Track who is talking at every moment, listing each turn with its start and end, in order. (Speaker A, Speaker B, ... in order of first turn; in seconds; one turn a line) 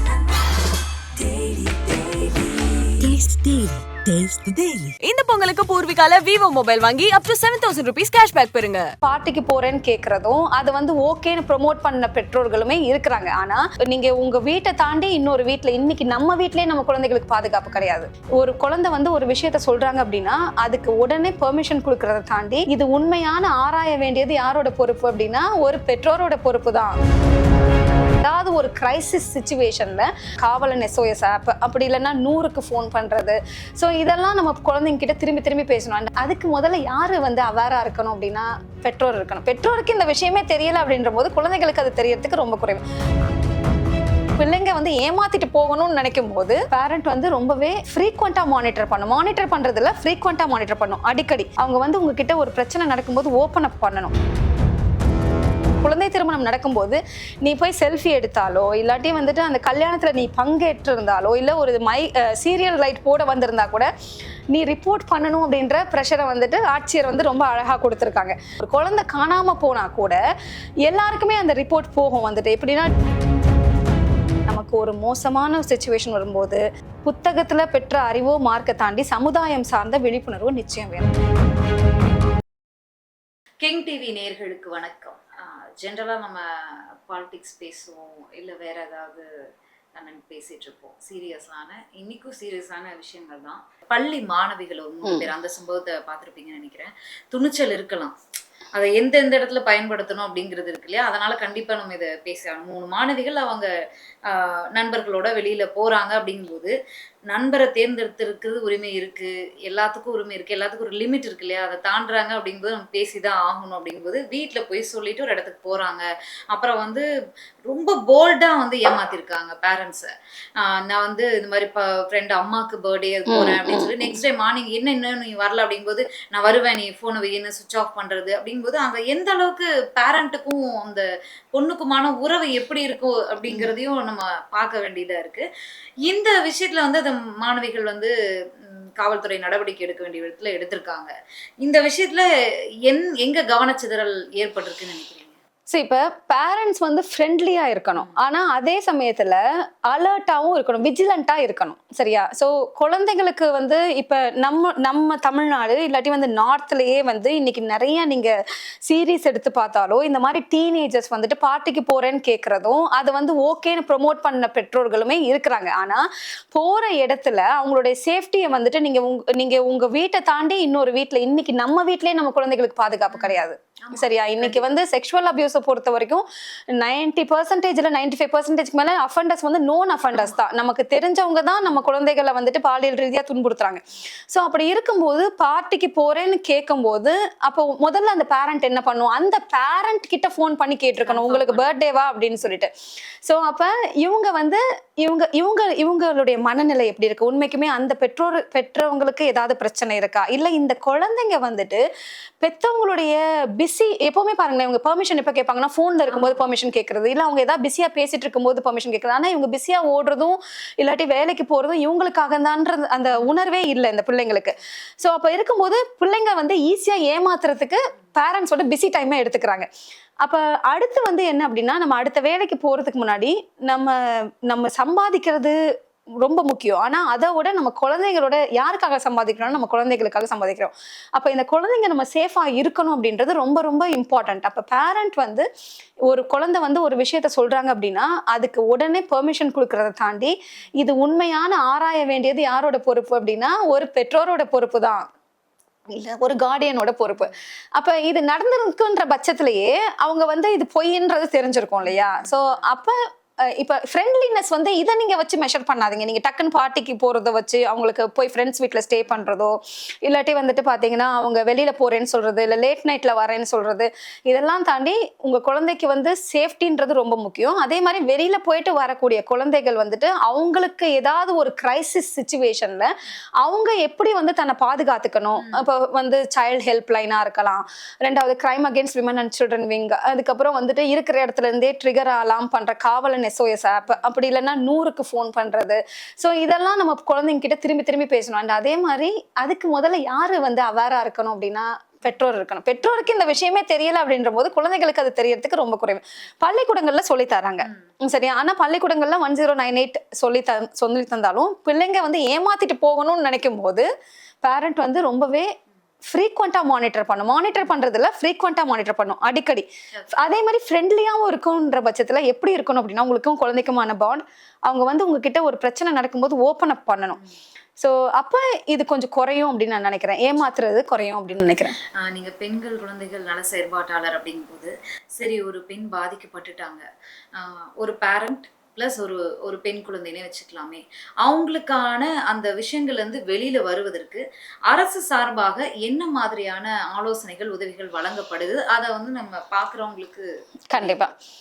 Speaker A: 1.3-1.7
Speaker A: 3.0-8.9
Speaker B: 9.0-26.9
Speaker B: 28.2-42.8
Speaker B: 44.4-54.1
Speaker B: 55.8-63.9
Speaker B: 64.5-70.2
Speaker B: 70.8-72.9
Speaker B: 74.5-81.2
Speaker C: 83.6-89.3
Speaker C: 89.9-98.1
Speaker C: 98.7-103.7
Speaker C: 104.3-106.8
Speaker C: 107.3-117.0
Speaker C: 117.7-135.5
Speaker B: 123.3-124.1
Speaker C: 136.1-142.3
Speaker C: 142.9-145.3
Speaker B: 145.7-149.4
Speaker B: 149.9-158.3
Speaker B: 158.9-192.7
Speaker C: 173.1-174.7
Speaker C: 180.1-180.4
Speaker C: 191.0-191.7
Speaker B: 193.2-201.8
Speaker B: 202.4-219.7
Speaker C: 206.1-206.5
Speaker C: 213.2-213.4
Speaker B: 220.2-225.5
Speaker B: 226.2-235.4
Speaker B: 236.1-245.1
Speaker B: 245.9-252.9
Speaker C: 251.8-252.6
Speaker B: 253.6-303.9
Speaker C: 275.4-275.7
Speaker B: 304.4-305.5
Speaker B: 306.1-317.2
Speaker B: 317.8-321.7
Speaker C: 321.3-341.1
Speaker B: 340.7-341.1